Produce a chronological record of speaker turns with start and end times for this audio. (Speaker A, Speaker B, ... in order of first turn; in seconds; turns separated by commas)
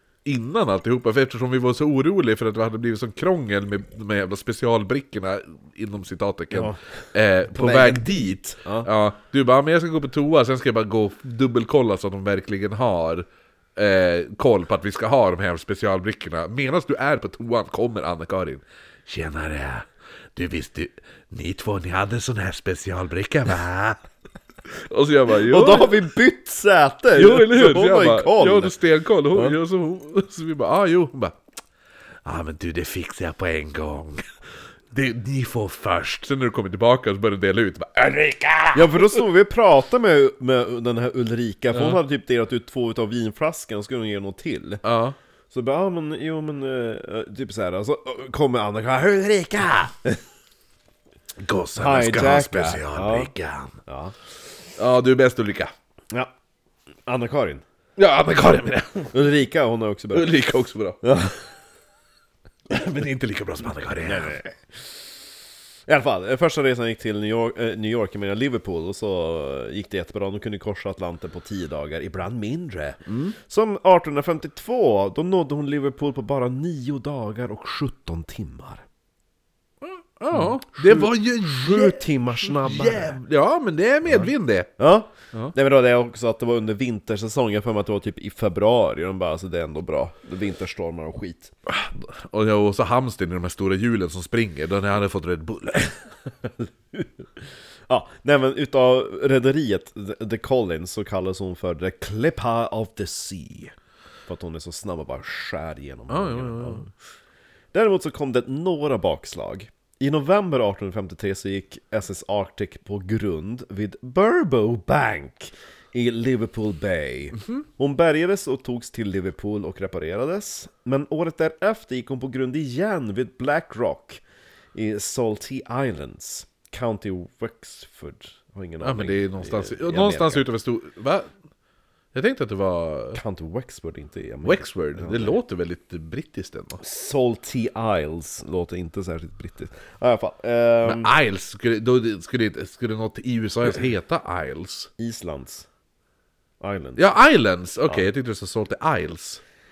Speaker A: 0.2-24.0, Speaker B: 6.5-6.8, Speaker B: 7.5-8.9, Speaker A: 24.7-26.0, Speaker B: 25.4-28.8, Speaker A: 27.2-31.4, Speaker A: 32.2-34.2, Speaker A: 34.9-39.2, Speaker B: 38.7-44.8, Speaker A: 41.7-42.0, Speaker A: 44.8-45.2, Speaker B: 45.5-50.2, Speaker A: 51.4-53.8, Speaker B: 51.8-53.3, Speaker B: 53.9-54.1, Speaker A: 54.8-55.7, Speaker B: 57.1-57.6, Speaker A: 58.0-59.1, Speaker B: 59.1-60.3, Speaker A: 60.1-61.0, Speaker B: 61.0-61.4, Speaker A: 62.7-64.4, Speaker B: 64.0-64.5, Speaker B: 65.9-78.8, Speaker A: 73.1-73.3, Speaker A: 79.8-84.7, Speaker B: 80.3-83.2, Speaker B: 84.1-91.5, Speaker A: 91.7-96.0, Speaker B: 96.9-97.2, Speaker B: 97.9-103.7, Speaker B: 104.3-106.9, Speaker A: 106.1-106.9, Speaker B: 107.7-124.2, Speaker B: 124.7-130.5, Speaker A: 128.8-131.3, Speaker A: 132.1-133.2, Speaker B: 133.2-135.4, Speaker A: 134.4-136.8, Speaker B: 136.8-141.1, Speaker A: 140.8-144.9, Speaker B: 145.0-145.7, Speaker B: 146.6-147.1, Speaker A: 147.0-149.4